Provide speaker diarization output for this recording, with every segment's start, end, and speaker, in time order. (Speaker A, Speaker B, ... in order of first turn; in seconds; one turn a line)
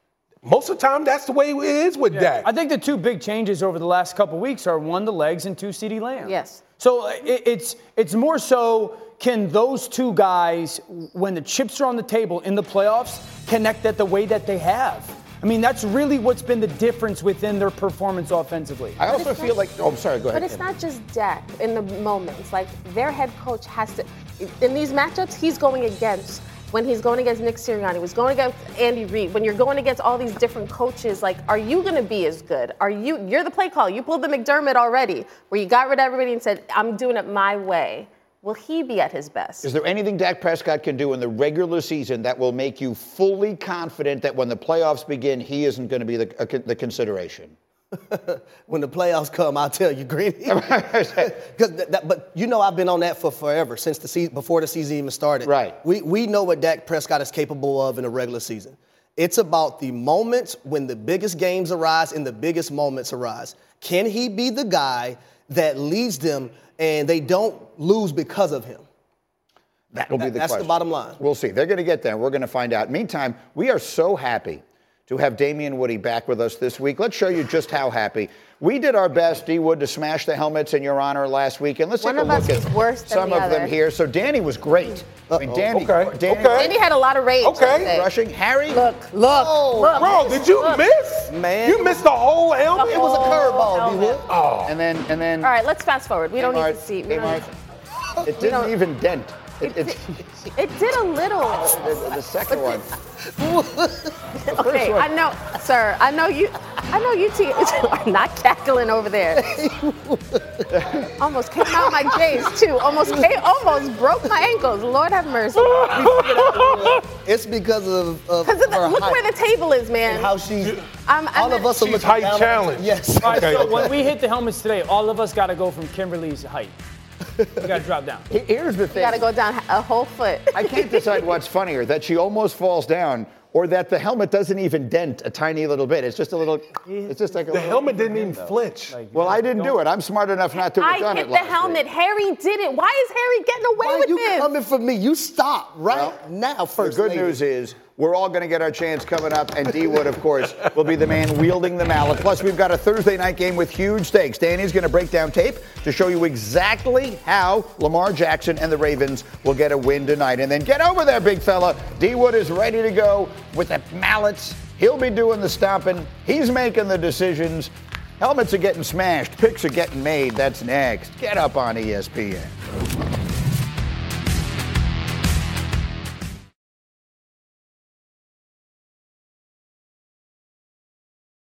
Speaker A: 0.4-2.5
Speaker B: 2.1-19.0
Speaker C: 6.2-6.6
Speaker D: 19.0-20.7
Speaker C: 19.0-19.6
Speaker C: 20.3-39.7
Speaker D: 39.6-47.5
Speaker E: 48.0-68.8
Speaker D: 50.5-51.3
Speaker D: 55.4-55.8
Speaker D: 69.9-86.7
Speaker E: 70.2-71.2
Speaker C: 82.0-83.7
Speaker E: 85.3-85.7
Speaker A: 85.7-86.7
Speaker C: 86.5-88.1
Speaker A: 87.4-87.9
Speaker D: 87.8-88.9
Speaker C: 88.7-90.9
Speaker E: 89.2-90.2
Speaker A: 90.0-93.1
Speaker E: 91.3-92.1
Speaker C: 92.7-94.3
Speaker E: 92.8-94.3
Speaker A: 94.3-94.8
Speaker D: 94.6-95.5
Speaker C: 95.4-97.4
Speaker D: 96.4-97.5
Speaker D: 98.2-100.5
Speaker C: 98.4-98.7
Speaker C: 99.6-100.0
Speaker C: 100.5-102.8
Speaker D: 101.5-102.9
Speaker E: 103.4-104.2
Speaker C: 104.4-109.6
Speaker D: 104.5-105.1
Speaker E: 109.3-112.4
Speaker C: 111.2-115.9
Speaker A: 115.6-117.1
Speaker E: 115.9-119.2
Speaker B: 116.0-116.7
Speaker C: 118.4-120.3
Speaker E: 120.1-120.8
Speaker C: 121.1-121.7
Speaker E: 121.3-123.9
Speaker A: 121.7-123.9
Speaker B: 123.2-126.8
Speaker B: 127.6-128.3
Speaker D: 128.3-129.2
Speaker C: 128.9-131.2
Speaker D: 130.5-137.9
Speaker B: 136.9-139.8
Speaker A: 137.5-139.1
Speaker D: 139.1-141.8
Speaker C: 140.8-144.5
Speaker E: 143.8-147.4
Speaker D: 145.9-146.2
Speaker D: 146.8-172.6